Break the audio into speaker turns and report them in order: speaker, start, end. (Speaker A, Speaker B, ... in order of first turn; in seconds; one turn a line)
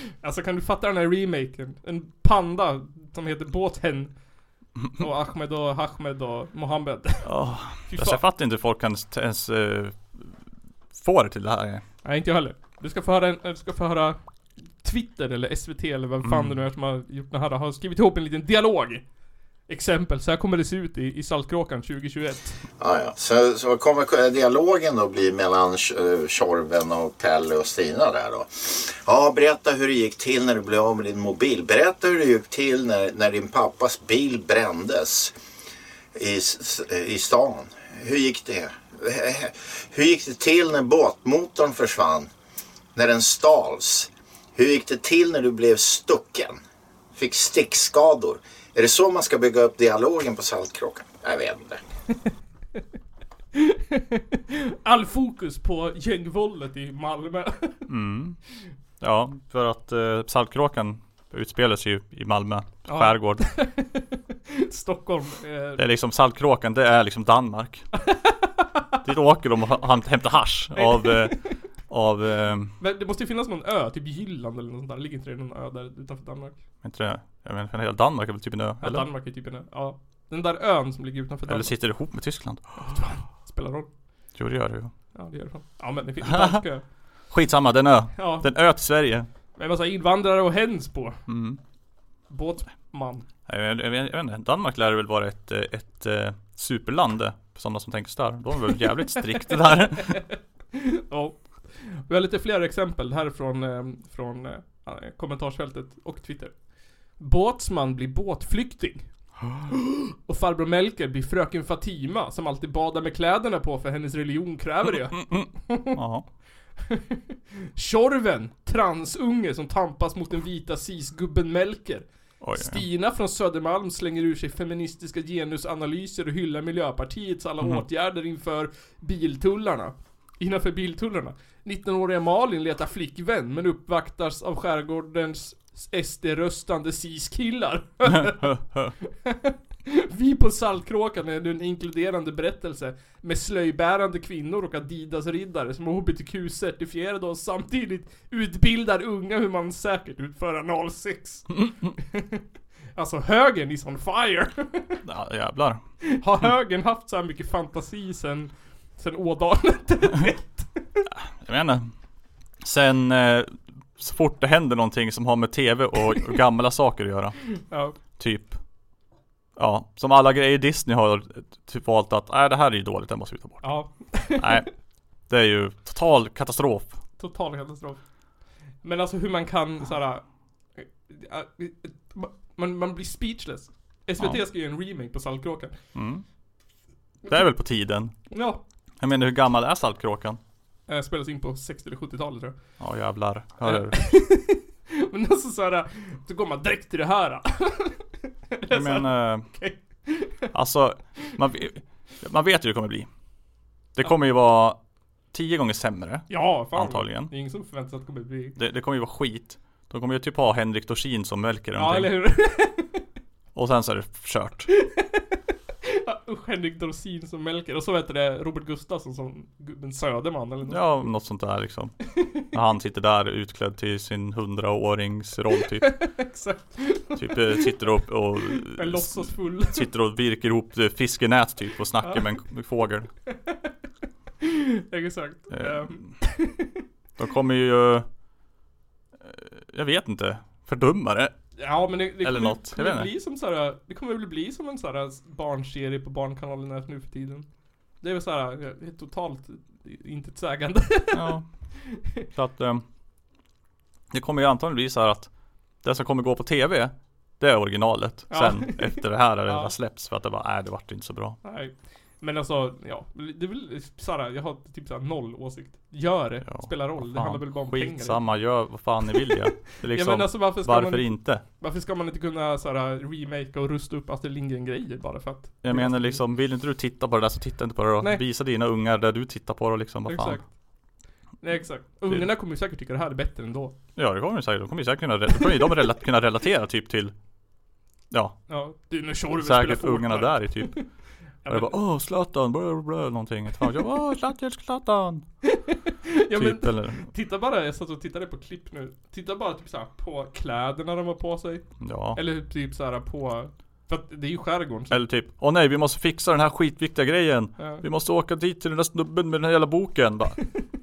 Speaker A: 0.2-4.2
Speaker A: 4.9-8.2
Speaker B: 7.2-10.4
Speaker B: 10.9-11.8
Speaker A: 12.0-19.1
Speaker B: 16.2-16.6
Speaker A: 19.7-22.6
Speaker C: 22.8-35.3
Speaker C: 36.2-42.3
Speaker C: 43.0-46.6
Speaker C: 47.1-51.8
Speaker A: 53.5-57.9
Speaker B: 57.9-58.4
Speaker B: 59.0-63.5
Speaker A: 62.9-65.8
Speaker B: 65.8-67.9
Speaker A: 68.1-68.6
Speaker B: 69.0-72.8
Speaker A: 70.8-71.5
Speaker A: 72.8-76.6
Speaker B: 76.8-79.1
Speaker A: 78.8-81.9
Speaker B: 81.5-82.9
Speaker A: 82.8-83.9
Speaker B: 84.3-84.9
Speaker A: 85.1-86.8
Speaker B: 86.2-86.6
Speaker B: 87.3-89.3
Speaker A: 88.2-88.5
Speaker A: 89.6-91.2
Speaker B: 91.3-91.6
Speaker A: 92.3-93.3
Speaker B: 93.5-100.2
Speaker A: 99.4-106.6
Speaker A: 107.1-116.0
Speaker B: 109.4-109.7
Speaker B: 115.1-116.3
Speaker A: 116.8-117.2
Speaker A: 117.8-152.4
Speaker B: 122.4-122.8
Speaker B: 138.1-138.9
Speaker A: 153.0-155.0
Speaker B: 155.0-155.8
Speaker A: 156.1-161.0
Speaker B: 161.1-161.9
Speaker B: 162.6-167.6
Speaker A: 167.7-168.0
Speaker B: 168.1-168.6
Speaker B: 169.6-177.0
Speaker A: 173.6-174.7
Speaker A: 177.2-178.0
Speaker A: 178.8-185.7
Speaker B: 185.9-186.3
Speaker B: 187.3-188.3
Speaker A: 188.3-188.6
Speaker B: 189.0-190.4
Speaker A: 190.9-192.6
Speaker B: 192.8-194.1
Speaker A: 193.6-200.5
Speaker B: 198.7-199.5
Speaker B: 200.5-203.1
Speaker B: 204.0-204.8
Speaker B: 205.3-207.3
Speaker A: 206.3-208.6
Speaker B: 208.6-212.2
Speaker A: 211.8-213.0
Speaker B: 213.5-214.7
Speaker A: 214.8-215.2
Speaker A: 215.9-221.1
Speaker B: 220.7-226.2
Speaker A: 226.0-227.6
Speaker B: 227.1-233.1
Speaker A: 228.4-229.9
Speaker A: 232.0-232.3
Speaker A: 234.4-236.7
Speaker B: 235.5-236.3
Speaker B: 237.2-238.1
Speaker B: 239.2-241.6
Speaker A: 241.6-251.6
Speaker B: 242.2-243.1
Speaker B: 251.1-252.8
Speaker B: 254.1-261.4
Speaker A: 258.3-259.7
Speaker A: 261.4-268.7
Speaker B: 266.4-271.4
Speaker A: 269.8-276.2
Speaker B: 275.6-280.4
Speaker A: 280.1-280.6
Speaker A: 281.4-283.8
Speaker B: 284.0-287.1
Speaker B: 288.1-288.4
Speaker A: 288.5-290.9
Speaker B: 289.3-295.3
Speaker A: 291.4-291.8
Speaker A: 295.4-305.0
Speaker B: 296.3-297.1
Speaker B: 301.8-302.2
Speaker B: 304.9-310.6
Speaker A: 307.6-307.8